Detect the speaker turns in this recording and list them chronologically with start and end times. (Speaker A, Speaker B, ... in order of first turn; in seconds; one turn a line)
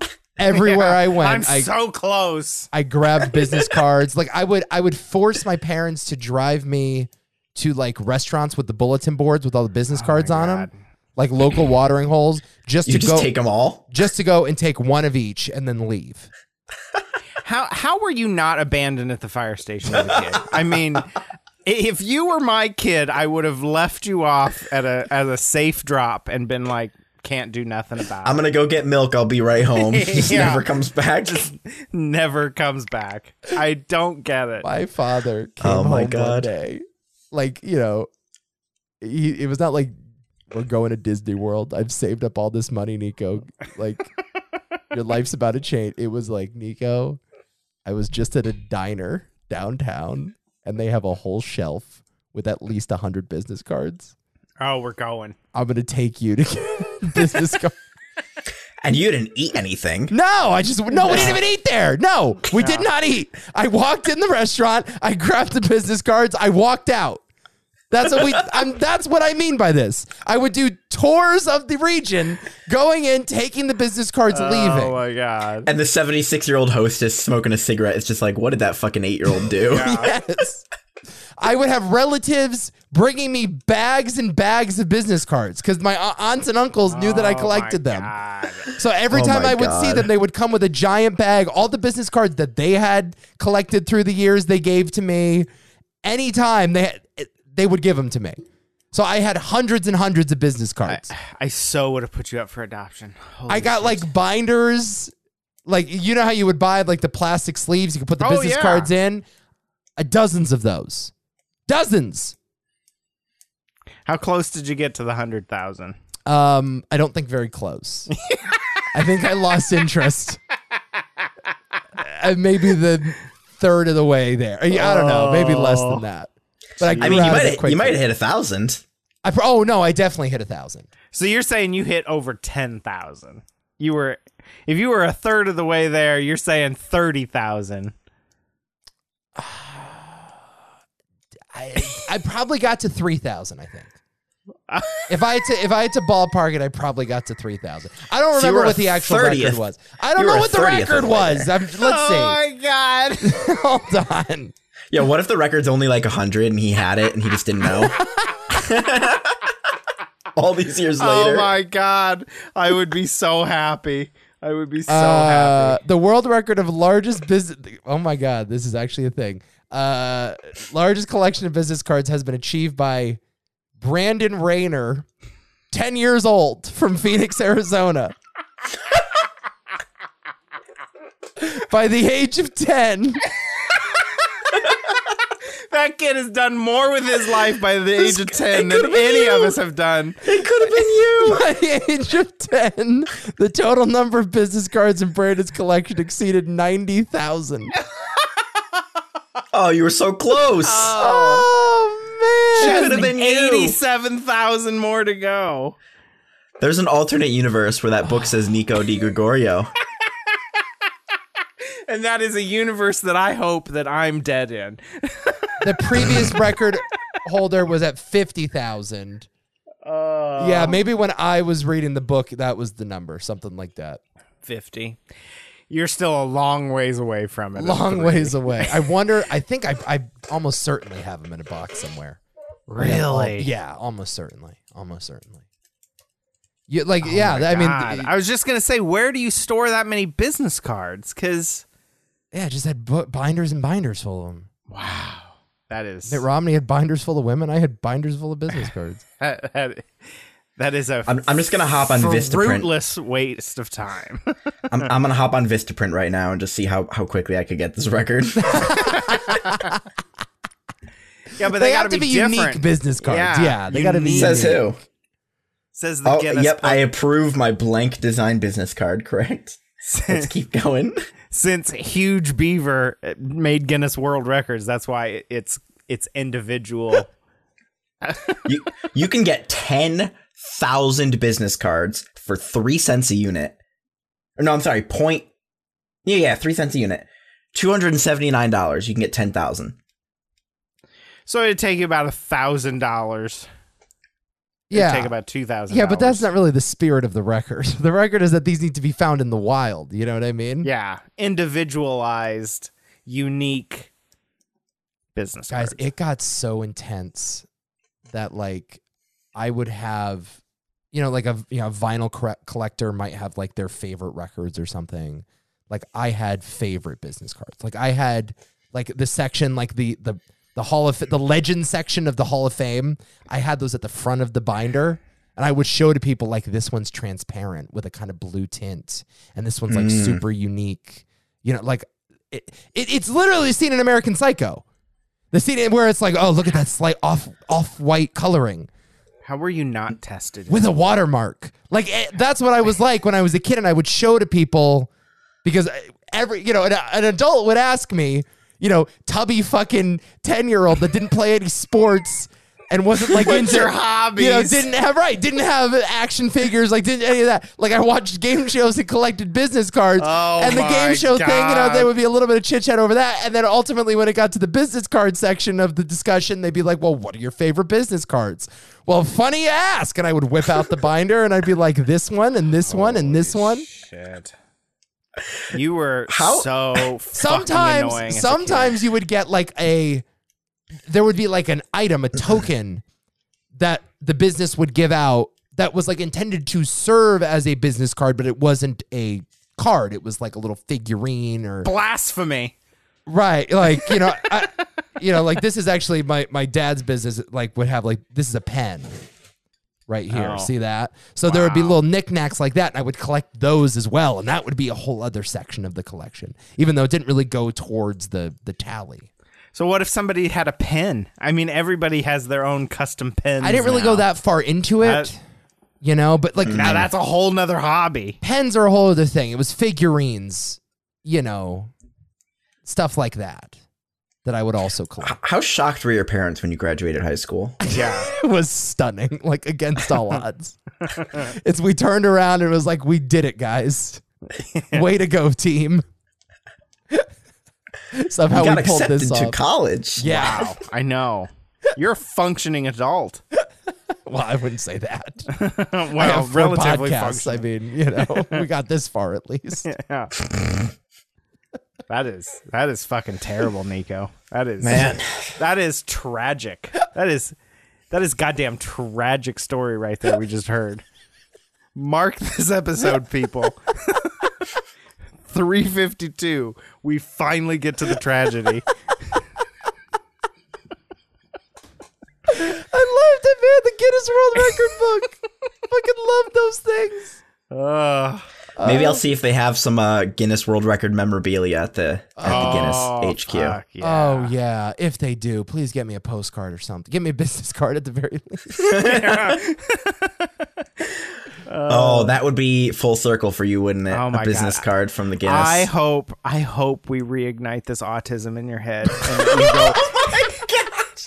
Speaker A: 0.4-1.7
Speaker B: 0.5-2.7
Speaker A: 2.7-13.3
Speaker B: 9.9-10.7
Speaker C: 12.9-13.9
Speaker A: 13.9-16.3
Speaker B: 17.4-21.1
Speaker B: 21.6-28.4
Speaker C: 28.2-31.5
Speaker B: 29.8-30.6
Speaker B: 31.3-34.7
Speaker A: 34.6-38.1
Speaker C: 35.6-36.5
Speaker A: 39.0-39.9
Speaker A: 40.5-44.1
Speaker A: 44.9-47.2
Speaker A: 47.9-54.1
Speaker B: 54.6-55.4
Speaker A: 55.5-57.8
Speaker C: 58.8-60.1
Speaker A: 60.1-67.2
Speaker B: 62.5-62.9
Speaker A: 67.9-75.0
Speaker B: 74.3-75.7
Speaker C: 75.7-80.0
Speaker B: 79.7-80.1
Speaker A: 79.8-80.6
Speaker A: 81.4-88.1
Speaker B: 86.9-88.7
Speaker A: 88.7-95.5
Speaker C: 89.1-90.1
Speaker A: 96.0-98.4
Speaker A: 98.9-101.1
Speaker B: 100.9-104.1
Speaker A: 103.5-105.1
Speaker A: 105.7-109.2
Speaker B: 108.2-108.9
Speaker A: 110.0-111.1
Speaker A: 111.7-112.4
Speaker B: 114.1-116.0
Speaker A: 116.3-118.1
Speaker B: 118.3-118.5
Speaker A: 118.9-120.4
Speaker A: 122.0-128.0
Speaker B: 124.7-126.0
Speaker B: 126.8-127.4
Speaker C: 127.0-128.8
Speaker A: 129.2-130.9
Speaker B: 131.1-137.9
Speaker A: 139.3-140.3
Speaker A: 141.5-143.9
Speaker B: 144.7-145.1
Speaker A: 145.1-152.4
Speaker C: 148.4-149.6
Speaker C: 150.2-151.5
Speaker B: 151.8-153.4
Speaker A: 153.2-154.5
Speaker C: 154.9-159.4
Speaker C: 160.3-161.5
Speaker B: 161.0-165.8
Speaker A: 164.9-173.2
Speaker A: 173.8-175.1
Speaker A: 175.7-178.2
Speaker A: 181.4-183.2
Speaker B: 185.7-190.2
Speaker C: 188.0-189.6
Speaker C: 190.2-191.4
Speaker A: 191.2-197.8
Speaker C: 199.5-201.0
Speaker B: 200.7-201.4
Speaker A: 201.0-203.1
Speaker C: 202.6-203.8
Speaker B: 202.6-205.8
Speaker C: 206.6-209.7
Speaker B: 211.9-216.2
Speaker A: 215.6-219.3
Speaker B: 219.8-220.8
Speaker A: 220.4-224.0
Speaker B: 224.4-225.0
Speaker B: 225.7-228.9
Speaker A: 227.6-232.2
Speaker B: 232.7-233.5
Speaker A: 232.8-235.4
Speaker A: 236.7-238.1
Speaker B: 237.0-241.7
Speaker A: 242.3-244.5
Speaker B: 244.7-246.2
Speaker A: 246.1-249.0
Speaker B: 249.2-249.9
Speaker B: 250.6-251.2
Speaker C: 251.1-252.7
Speaker B: 251.9-254.3
Speaker C: 254.7-258.9
Speaker A: 258.5-259.8
Speaker B: 261.4-264.6
Speaker A: 261.4-264.7
Speaker C: 264.1-264.8
Speaker B: 265.8-266.8
Speaker C: 266.1-271.1
Speaker B: 269.9-270.3
Speaker B: 271.3-277.1
Speaker B: 278.1-278.4
Speaker C: 278.5-283.6
Speaker C: 284.4-285.3
Speaker C: 286.1-289.8
Speaker B: 291.3-293.5
Speaker A: 294.7-295.1
Speaker B: 294.7-296.3
Speaker A: 295.7-300.7
Speaker B: 300.6-303.9
Speaker B: 305.1-305.8
Speaker A: 305.5-307.4
Speaker A: 308.1-308.8
Speaker A: 309.4-310.4
Speaker A: 310.9-334.6
Speaker C: 329.7-330.2
Speaker A: 335.3-338.7
Speaker B: 339.2-340.7
Speaker A: 340.5-344.9
Speaker A: 345.4-373.7
Speaker B: 353.0-354.7
Speaker B: 360.0-361.9
Speaker B: 372.6-374.3
Speaker B: 375.5-378.8
Speaker C: 376.1-376.9
Speaker A: 377.1-380.1
Speaker A: 380.9-382.8
Speaker A: 383.5-391.7
Speaker B: 391.6-392.5
Speaker A: 393.1-398.9
Speaker A: 399.9-409.1
Speaker B: 400.1-400.5
Speaker B: 401.3-401.8
Speaker B: 409.6-414.1
Speaker A: 413.4-415.2
Speaker B: 414.8-415.1
Speaker A: 415.8-416.9
Speaker C: 416.5-416.9
Speaker B: 416.5-418.2
Speaker A: 418.2-421.7
Speaker A: 422.6-423.6
Speaker A: 424.2-425.2
Speaker C: 425.0-427.6
Speaker B: 427.7-428.1
Speaker A: 427.7-430.6
Speaker A: 431.1-434.0
Speaker B: 434.5-434.8
Speaker A: 434.7-435.9
Speaker A: 437.9-439.4
Speaker C: 438.3-440.1
Speaker A: 440.0-440.6
Speaker B: 440.0-443.2
Speaker A: 444.1-445.3
Speaker B: 445.3-447.4
Speaker A: 446.0-449.7
Speaker B: 449.7-450.1
Speaker B: 451.9-457.4
Speaker C: 454.6-455.3
Speaker B: 457.9-460.8
Speaker B: 461.8-464.1
Speaker B: 465.3-468.6
Speaker A: 472.3-477.2
Speaker B: 477.5-478.3
Speaker A: 478.6-479.0
Speaker C: 478.6-483.6
Speaker A: 482.2-482.8
Speaker B: 482.2-484.3
Speaker A: 483.8-488.7
Speaker C: 488.6-489.4
Speaker B: 488.8-490.1
Speaker B: 491.5-492.2
Speaker C: 491.7-495.7
Speaker B: 493.9-494.6
Speaker B: 495.2-500.3
Speaker C: 499.4-500.9